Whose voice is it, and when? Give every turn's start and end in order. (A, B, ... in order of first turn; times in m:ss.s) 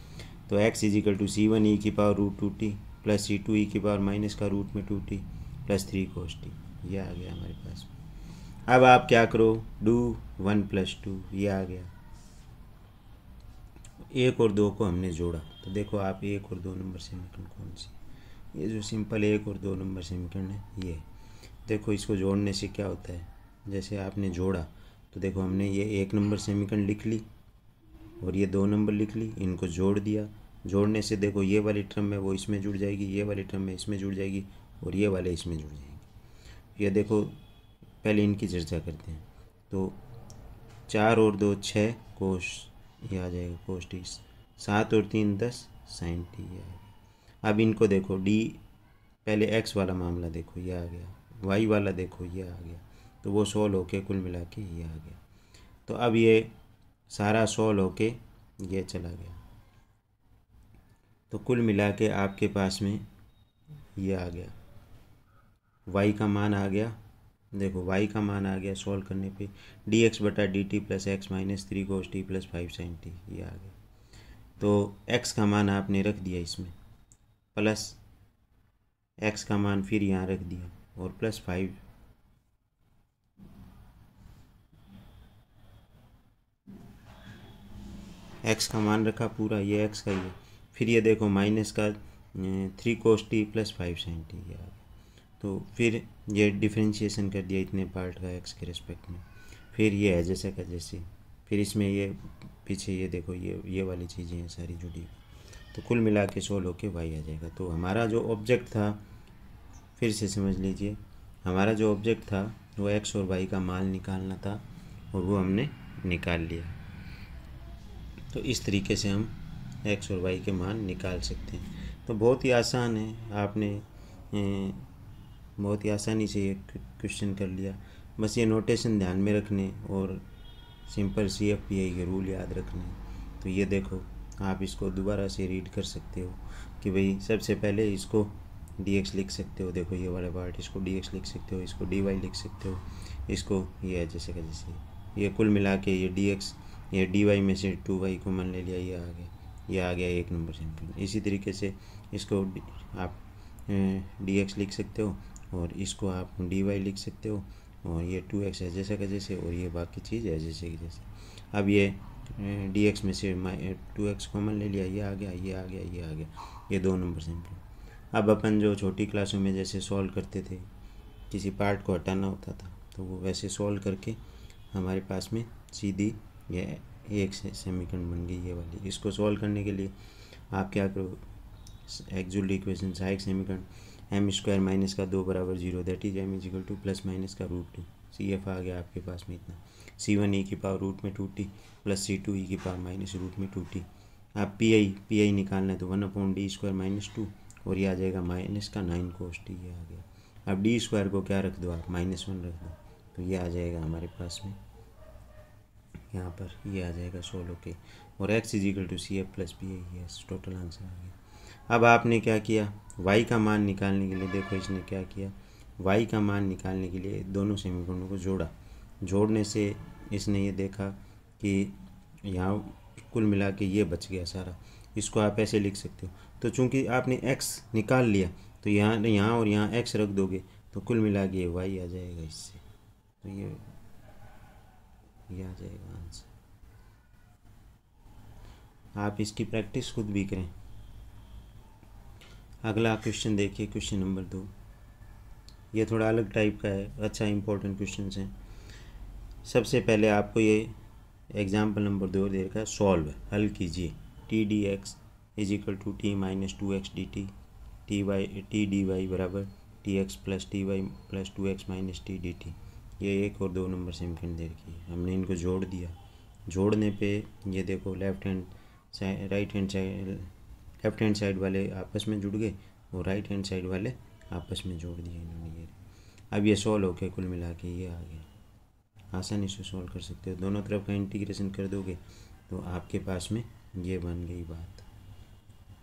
0:00.5-0:07.9 A
0:08.7-0:11.9 A
0:14.1-0:18.0 A
0:18.5-0:21.1 A
0:21.6-0:27.2 A
0:28.2-0:36.1 A
0:36.8-0:37.4 A
0:38.0-0:40.0 A
0:40.9-0:48.6 A
0:49.2-0:55.2 A
0:55.9-0:56.5 A
0:57.1-0:59.4 A
1:01.3-1:03.1 A
1:04.0-1:04.6 A
1:05.9-1:07.0 A
1:07.5-1:13.8 A
1:14.6-1:16.8 A
1:17.5-1:18.0 A
1:19.2-1:21.8 A
1:28.4-1:34.8 A
1:35.4-1:45.2 A
1:45.7-1:49.0 A
1:50.0-1:56.8 A
1:58.3-2:04.9 A
2:05.6-2:10.2 A
2:10.9-2:50.7 A
2:51.3-2:54.2 A
2:54.7-3:00.0 A
3:00.5-3:01.2 A
3:01.9-3:24.6 A
3:26.1-3:31.2 A
3:31.7-3:52.6 A
3:53.2-3:53.7 A
3:55.3-3:56.3 A
3:59.0-4:00.5 A
4:02.6-4:04.5 A
4:05.7-4:08.4 A
4:09.4-4:10.8 A
4:11.3-4:17.3 A
4:17.9-4:26.0 A
4:26.5-4:30.3 A
4:30.8-4:35.8 A
4:36.3-4:38.3 A
4:39.1-4:44.9 A